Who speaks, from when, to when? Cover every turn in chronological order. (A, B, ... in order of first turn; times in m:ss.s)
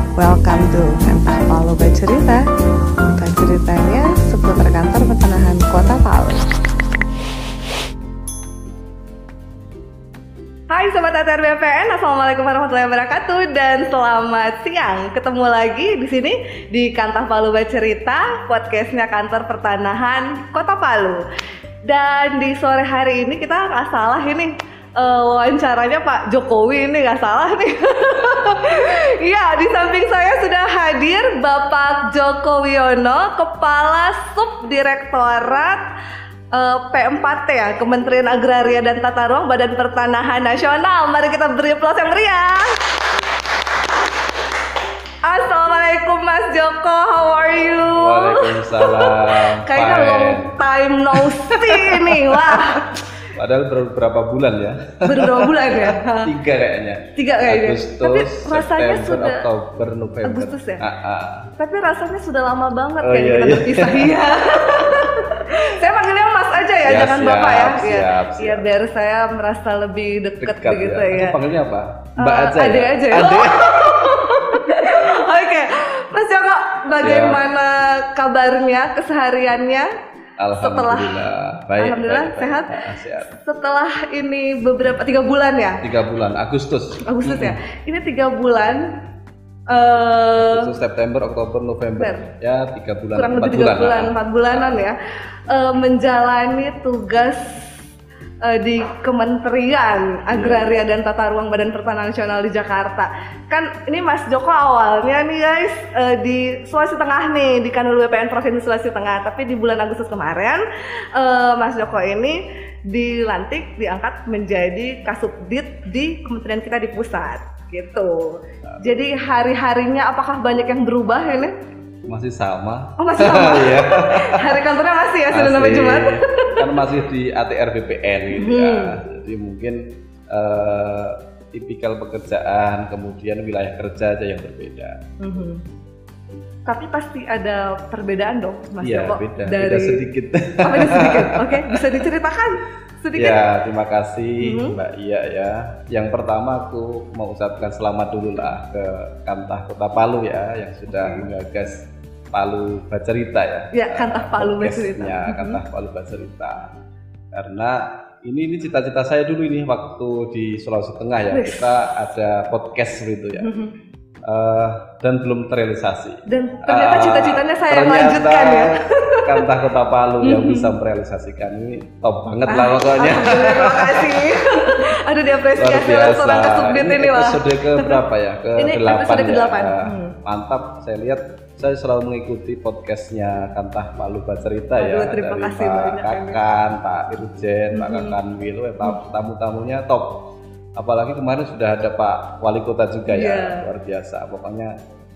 0:00.2-0:02.4 A
0:03.0-0:06.5 A
0:10.7-0:21.2 A
0:21.8-0:35.8 A
0:36.5-0:42.9 A
0:45.2-0:52.9 A
0:47.9-0:50.5 B
0:51.1-1:01.5 B
0:55.0-0:56.3 A
0:57.2-0:59.4 A
1:00.2-1:00.8 A
1:01.6-1:11.4 A
1:03.0-1:05.6 B
1:06.8-1:08.7 B
1:10.4-1:14.9 B
1:12.2-1:19.9 A
1:17.0-1:17.4 B
1:20.4-1:23.3 B
1:20.6-1:21.2 A
1:21.8-1:25.8 A
1:25.8-1:27.6 B
1:27.0-1:28.9 A
1:29.7-1:30.7 A
1:30.4-1:34.8 B
1:32.0-1:32.3 A
1:33.1-1:35.0 A
1:35.5-1:37.7 A
1:38.4-1:50.6 A
1:40.3-1:40.8 B
1:51.1-1:52.4 A
1:52.9-2:01.5 A
2:02.1-2:04.6 B
2:03.0-2:06.8 A
2:05.3-2:15.0 B
2:08.3-2:09.0 A
2:15.2-2:15.6 A
2:16.7-2:20.0 A
2:18.8-2:21.8 B
2:20.6-2:23.4 A
2:23.1-2:36.7 B
2:24.4-2:24.8 A
2:30.9-2:31.2 A
2:33.7-2:35.6 A
2:37.3-2:43.5 B
2:41.3-2:41.7 A
2:43.4-2:43.7 A
2:44.2-2:54.8 B
2:46.3-2:49.5 A
2:50.2-2:50.7 A
2:52.4-2:58.0 A
2:55.6-3:14.7 B
2:58.6-3:00.1 A
3:04.8-3:06.4 A
3:07.7-3:08.2 A
3:13.1-3:13.7 A